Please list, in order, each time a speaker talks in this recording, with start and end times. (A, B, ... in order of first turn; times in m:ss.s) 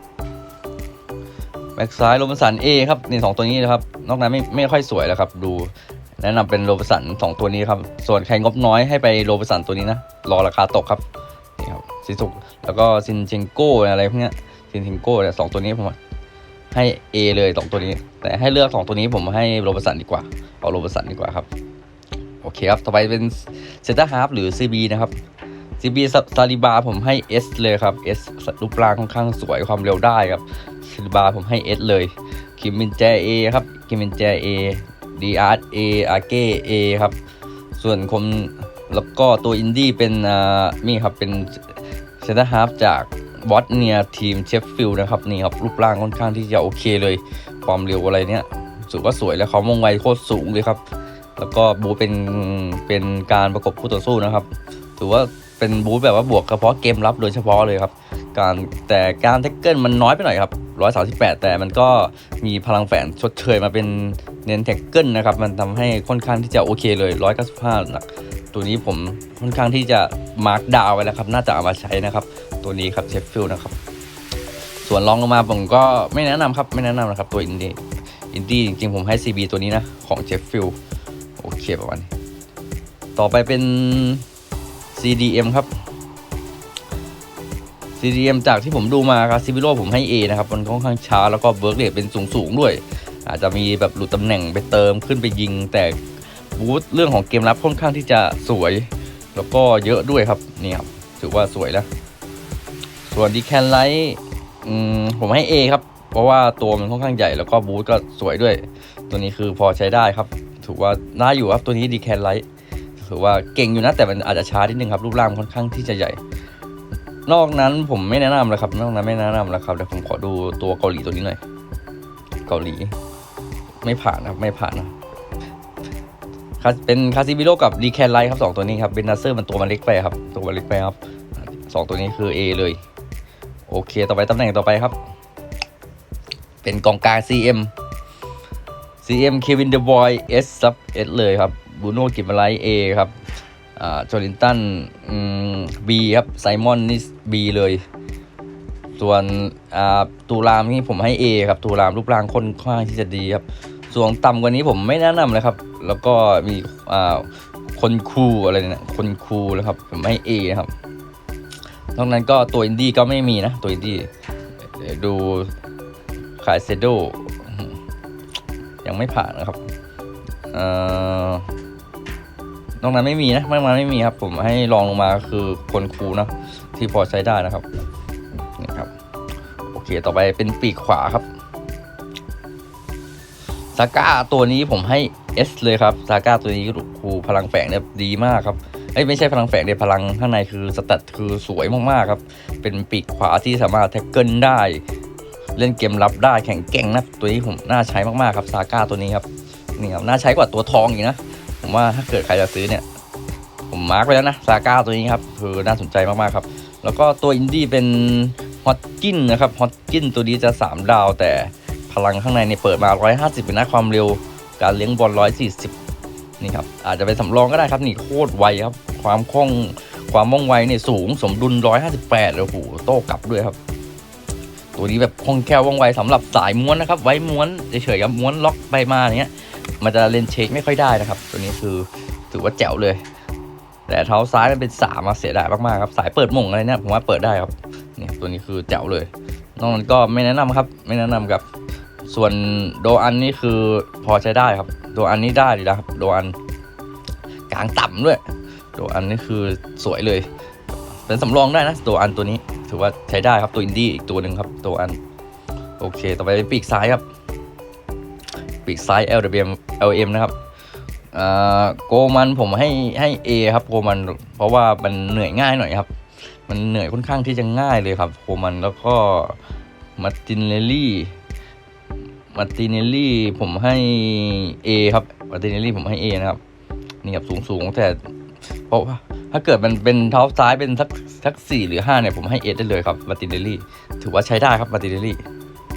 0:01.8-0:11.0 A
0:11.6-0:16.0 A
0:16.7-0:21.5 A
0:22.4-0:25.1 A
0:25.8-0:37.2 A
0:37.8-0:50.8 A
0:51.4-1:13.7 A
1:14.8-1:17.8 A
1:18.3-1:20.8 A
1:21.4-1:22.1 A
1:23.2-1:24.2 A
1:24.9-1:25.7 A
1:28.0-1:36.0 A
1:36.5-1:41.9 A
1:43.1-1:52.4 A
1:53.0-1:56.2 A
1:57.3-2:01.4 A
2:02.5-2:02.9 A
2:03.8-2:04.9 A
2:06.6-2:12.8 A
2:13.7-2:14.9 A
2:16.6-2:17.7 A
2:19.0-2:23.1 A
2:23.8-2:27.8 A
2:29.0-2:40.7 A
2:41.9-2:44.1 A
2:44.7-2:45.5 A
2:46.4-2:47.7 A
2:48.8-2:49.6 A
2:50.5-2:51.5 A
2:52.8-2:57.6 A
2:58.6-2:58.9 A
2:59.7-3:01.2 A
3:03.7-3:14.8 A
3:15.6-3:19.2 A
3:19.8-3:22.8 A
3:23.7-3:35.7 A
3:36.4-3:43.6 A
3:44.8-3:53.0 A
3:53.9-4:01.4 A
4:02.1-4:06.4 A
4:07.5-4:08.2 A
4:08.7-4:10.3 A
4:11.0-4:15.0 A
4:15.8-4:17.0 A
4:18.6-4:20.3 A
4:21.1-4:25.9 A
4:26.5-4:29.4 A
4:30.0-4:31.1 A
4:32.3-4:36.4 A
4:37.0-4:38.0 A
4:38.7-4:45.2 A